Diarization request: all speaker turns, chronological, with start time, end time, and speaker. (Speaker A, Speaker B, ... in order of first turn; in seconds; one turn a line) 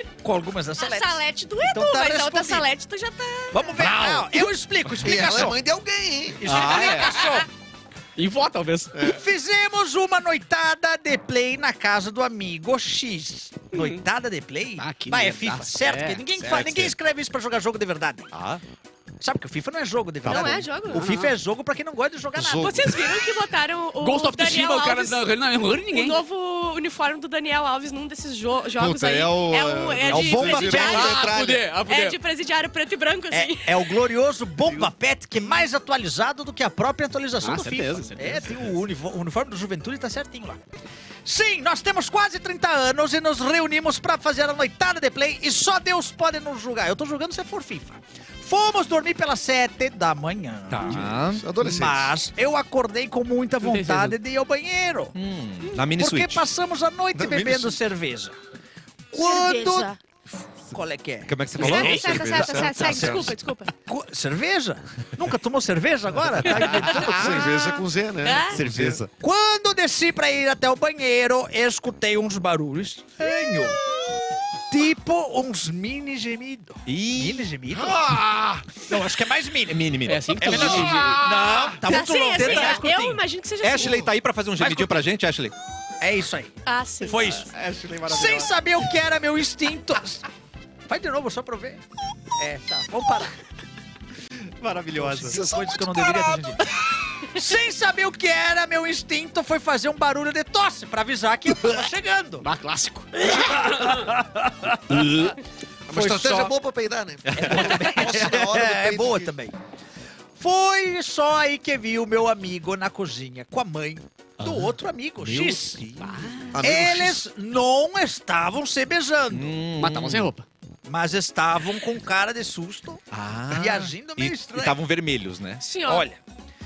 Speaker A: 0.2-2.7
Speaker B: 0.8-4.1
Speaker A: 3.5-5.6
Speaker C: 5.0-6.6
Speaker A: 6.4-7.5
Speaker D: 6.5-7.2
Speaker E: 6.5-7.0
Speaker E: 8.2-8.9
Speaker A: 8.9-18.3
Speaker E: 13.7-14.0
Speaker E: 14.8-16.9
Speaker D: 18.3-18.6
Speaker A: 19.2-22.9
Speaker D: 20.2-20.6
Speaker B: 20.3-21.0
Speaker E: 20.9-21.3
Speaker C: 22.4-23.0
Speaker B: 22.6-25.2
Speaker E: 24.0-26.2
Speaker B: 25.9-33.8
Speaker C: 28.8-31.6
Speaker A: 30.1-31.2
Speaker E: 30.5-32.2
Speaker A: 33.3-40.6
Speaker E: 37.4-38.5
Speaker A: 41.2-55.2
Speaker D: 50.7-51.5
Speaker C: 50.9-52.1
Speaker E: 53.6-54.2
Speaker D: 55.1-56.5
Speaker A: 55.9-58.4
Speaker C: 57.1-57.8
Speaker A: 59.1-59.9
Speaker B: 59.2-60.0
Speaker A: 60.7-63.3
Speaker D: 61.3-63.3
Speaker B: 61.6-63.7
Speaker E: 61.6-61.9
Speaker C: 61.6-63.3
Speaker A: 63.9-67.8
Speaker D: 66.5-67.6
Speaker C: 66.7-69.0
Speaker B: 68.2-68.6
Speaker D: 68.5-69.1
Speaker A: 69.2-73.8
Speaker A: 74.7-78.0
Speaker D: 76.9-78.6
Speaker A: 78.8-83.2
Speaker D: 79.7-81.7
Speaker E: 80.1-81.2
Speaker B: 81.9-84.1
Speaker D: 83.6-85.5
Speaker C: 83.8-84.1
Speaker A: 84.6-85.1
Speaker A: 86.0-86.5
Speaker B: 86.7-87.5
Speaker A: 87.0-87.5
Speaker D: 87.0-88.5
Speaker A: 88.0-90.2
Speaker A: 90.9-91.8
Speaker A: 92.4-93.3
Speaker D: 94.6-96.5
Speaker A: 95.0-96.7
Speaker A: 97.3-102.5
Speaker E: 102.4-103.1
Speaker A: 103.2-105.3
Speaker C: 105.9-109.3
Speaker A: 105.9-106.6
Speaker A: 107.3-109.6
Speaker A: 110.4-115.8
Speaker D: 114.4-116.5
Speaker E: 116.0-116.6
Speaker C: 116.6-117.3
Speaker A: 116.6-119.6
Speaker D: 119.3-120.3
Speaker E: 119.8-120.5
Speaker A: 120.9-124.8
Speaker D: 123.1-125.6
Speaker B: 125.6-126.1
Speaker A: 125.9-126.2